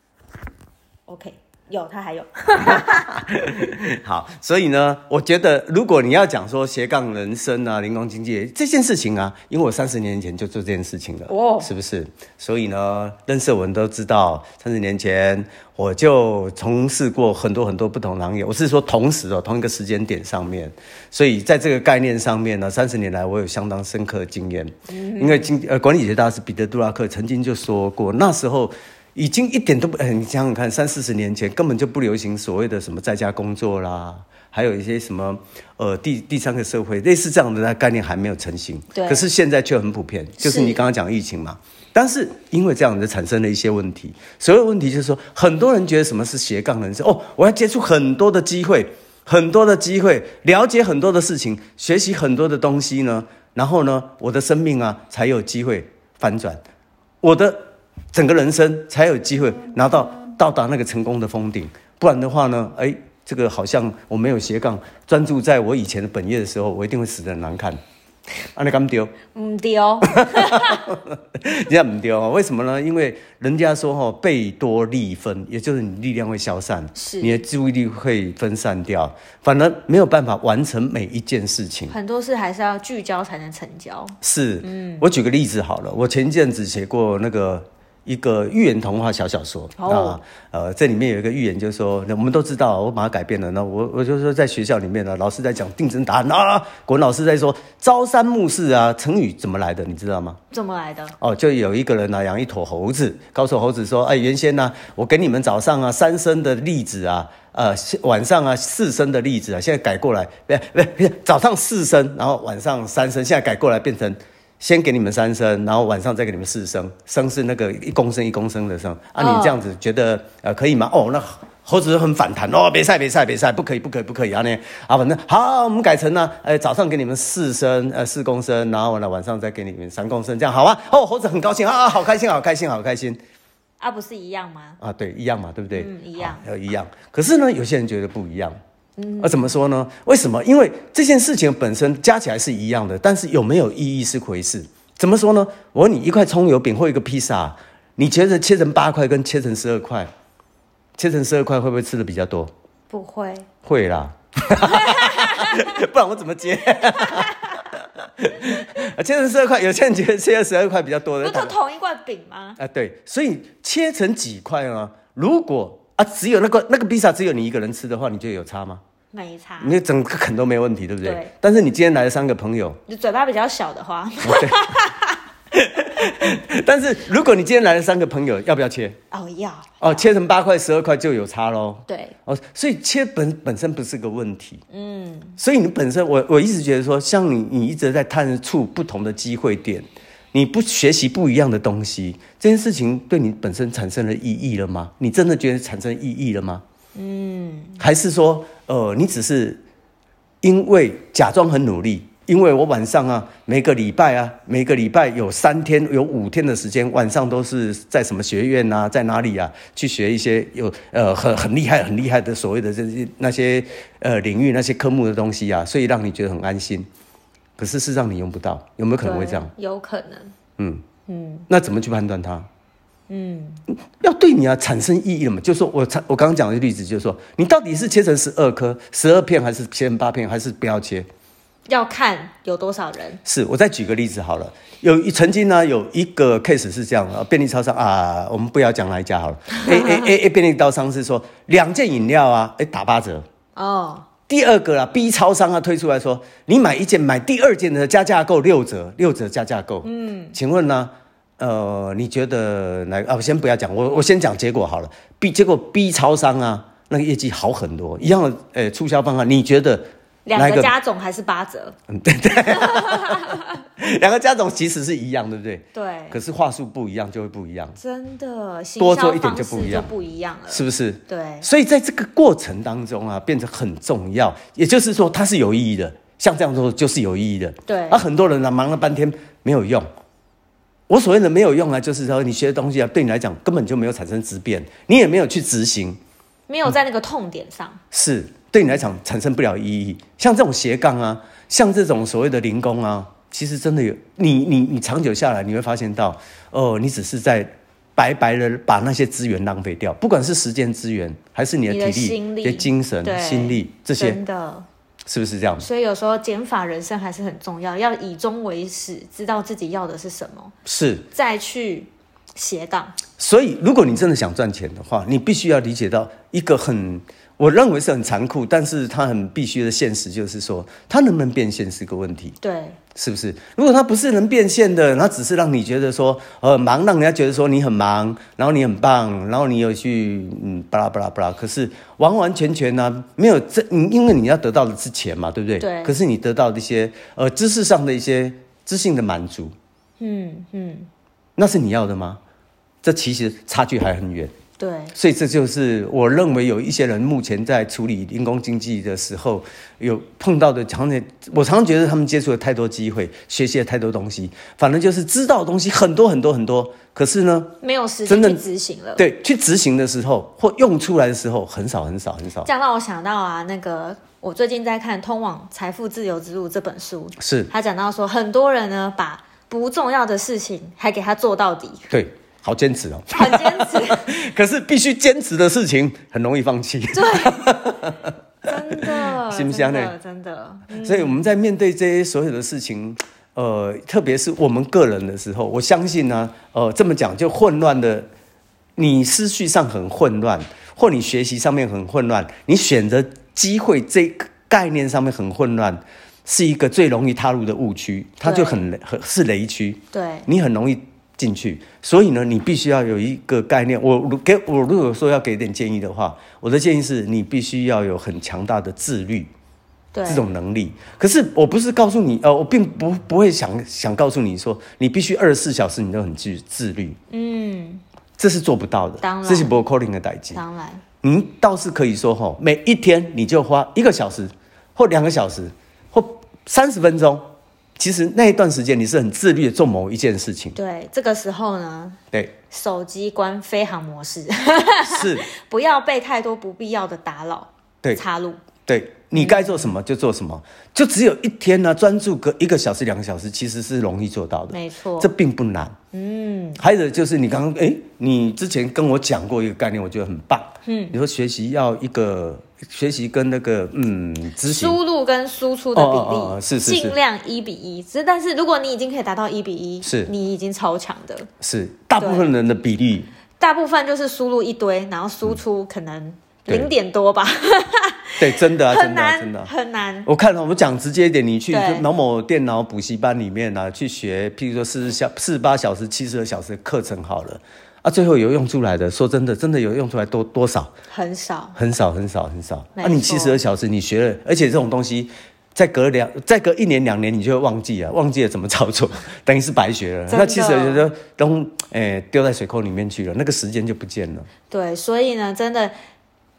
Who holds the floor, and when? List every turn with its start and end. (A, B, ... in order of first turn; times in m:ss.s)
0:01.1-0:03.2 A
0:02.6-0:56.6 B
0:11.3-0:11.7 A
0:24.9-0:25.5 A
0:38.9-0:39.2 A
0:40.4-0:40.8 A
0:57.2-0:57.6 B
0:58.1-1:07.8 B
1:08.5-1:09.1 B
1:09.3-1:10.8 A
1:10.1-1:21.9 B
1:16.9-1:17.4 A
1:21.9-1:25.0 A
1:24.2-1:40.4 B
1:29.8-1:30.2 A
1:40.5-1:41.1 A
1:41.2-2:13.2 B
1:59.2-1:59.6 A
2:13.8-2:14.8 A
2:14.8-2:18.6 B
2:15.7-2:16.4 A
2:19.0-2:19.6 A
2:19.2-2:30.1 B
2:31.0-2:32.5 B
2:32.9-2:33.5 A
2:33.6-2:41.6 B
2:34.5-2:35.6 A
2:36.8-2:37.4 A
2:41.2-2:42.6 A
2:42.6-2:48.8 B
2:49.1-2:49.8 A
2:49.6-2:52.8 B
2:51.0-2:51.3 A
2:52.9-2:55.2 A
2:54.2-2:54.6 B
2:55.5-2:59.0 B
2:59.1-3:00.1 A
2:59.8-3:04.6 B
3:01.9-3:02.1 A
3:04.7-3:05.4 A
3:05.4-3:16.6 B
3:16.9-3:17.8 A
3:17.8-3:19.6 B
3:20.4-3:36.9 B
3:37.6-3:39.5 B
3:39.0-3:40.3 A
3:40.6-3:40.8 B
3:41.1-3:41.4 A
3:41.5-3:42.5 B
3:43.1-3:43.6 A
3:44.0-3:51.1 B
3:51.7-3:53.2 A
3:53.2-4:03.2 B
3:59.6-4:00.1 A
4:03.5-4:04.0 A
4:04.3-4:20.7 B
4:09.8-4:10.4 A
4:20.2-4:21.8 A
4:21.9-4:27.8 B
4:22.5-4:23.5 A
4:25.7-4:26.2 A
4:27.8-4:31.5 A
4:28.8-4:29.9 B
4:30.5-4:39.9 B
4:37.7-4:38.0 A
4:40.9-4:46.0 B
4:46.5-4:47.8 A
4:47.9-5:04.2 B
5:01.7-5:04.6 A
5:05.1-5:05.7 B
5:05.6-5:10.5 A
5:10.6-5:11.0 B
5:11.1-5:13.0 A
5:13.2-5:22.4 B
5:22.4-5:22.8 A
5:22.9-5:39.5 B
5:35.6-5:35.9 A
5:40.0-5:40.9 A
5:41.4-5:42.2 B
5:42.8-5:44.3 B
5:44.6-5:44.9 A
5:44.9-5:57.5 B
5:57.6-5:59.0 A
5:58.0-5:58.4 B
5:59.0-6:02.5 B
6:02.4-6:11.8 A
6:07.2-6:07.5 B
6:11.9-6:18.1 B
6:13.1-6:14.1 A
6:16.9-6:17.6 A
6:18.4-6:21.2 A
6:18.7-6:19.9 B
6:20.7-6:28.1 B
6:28.8-6:49.3 B
6:38.2-6:38.6 A
6:39.9-6:40.3 A
6:49.9-6:50.2 A
6:50.0-6:57.0 B
6:57.1-6:57.8 A
6:58.2-7:00.4 B
6:59.0-6:59.5 A
7:00.3-7:00.8 A
7:01.0-7:10.6 B
7:10.5-7:12.0 A
7:12.5-7:18.4 A
7:14.8-7:15.2 B
7:18.7-7:25.7 B
7:19.1-7:19.7 A
7:24.5-7:25.1 A
7:25.9-7:26.6 A
7:26.6-7:34.8 B
7:30.6-7:31.0 A
7:34.4-7:41.3 A
7:35.7-7:37.0 B
7:39.8-7:40.1 B
7:41.4-7:43.1 B
7:42.0-7:42.3 A
7:43.4-7:50.1 A
7:48.2-7:49.5 B
7:50.0-8:00.7 B
7:51.5-7:51.8 A
8:00.9-8:01.6 A
8:01.6-8:14.3 B
8:02.8-8:03.4 A
8:10.1-8:10.8 A
8:14.5-8:15.7 A